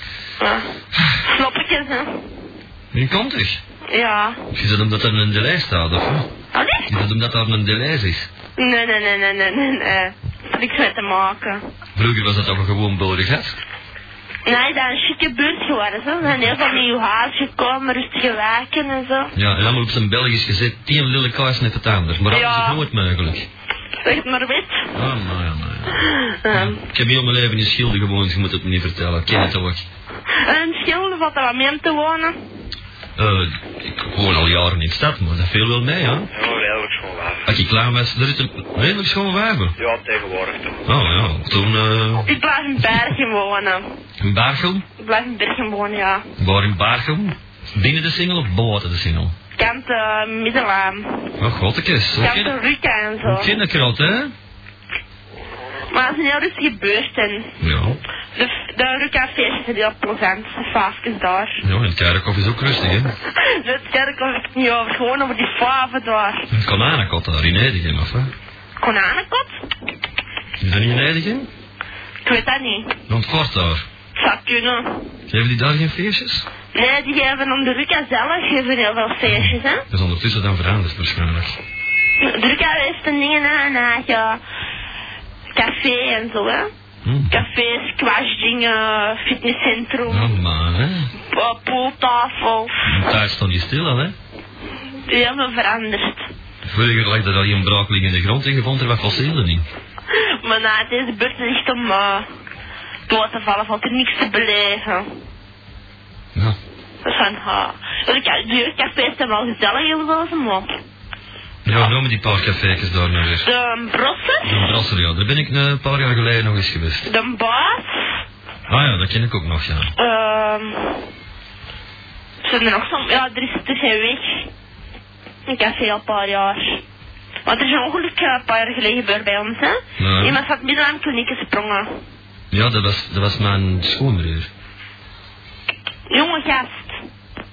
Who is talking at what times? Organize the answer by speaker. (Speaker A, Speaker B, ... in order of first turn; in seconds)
Speaker A: 0.4-0.7, 1.2-2.3, 3.9-4.4, 6.5-6.9, 8.6-11.6, 14.4-19.3, 22.3-22.8, 24.0-24.9, 26.1-26.9, 30.3-32.4, 42.3-43.8, 45.0-46.2, 49.6-51.3, 52.2-53.5, 55.9-57.5, 58.4-61.6, 63.4-66.5, 68.8-69.6, 72.2-73.0, 74.2-75.1, 76.7-79.8, 82.2-84.4, 85.5-86.7, 87.3-90.3, 91.2-92.8, 95.0-96.3, 100.1-102.3, 103.1-105.1, 107.0-110.7, 113.4-114.7, 117.0-118.1, 120.0-121.1, 122.4-124.5, 125.5-126.8, 127.5-131.9, 136.1-137.0
Speaker B: 2.9-3.6, 4.5-6.3, 6.9-8.3, 12.0-13.6, 19.4-23.5, 24.9-29.9, 33.2-36.3, 37.5-39.8, 40.9-42.3, 44.2-44.9, 46.4-49.3, 51.4-52.6, 53.2-54.3, 57.6-58.0, 61.6-63.1, 66.5-68.3, 70.6-71.5, 73.1-73.9, 75.3-76.5, 79.3-81.6, 87.0-87.4, 90.1-91.1, 92.9-94.2, 96.7-99.7, 111.7-113.5, 114.4-117.1, 118.7-119.9, 130.0-130.4, 132.5-134.5
Speaker C: 36.3-37.5, 39.8-40.9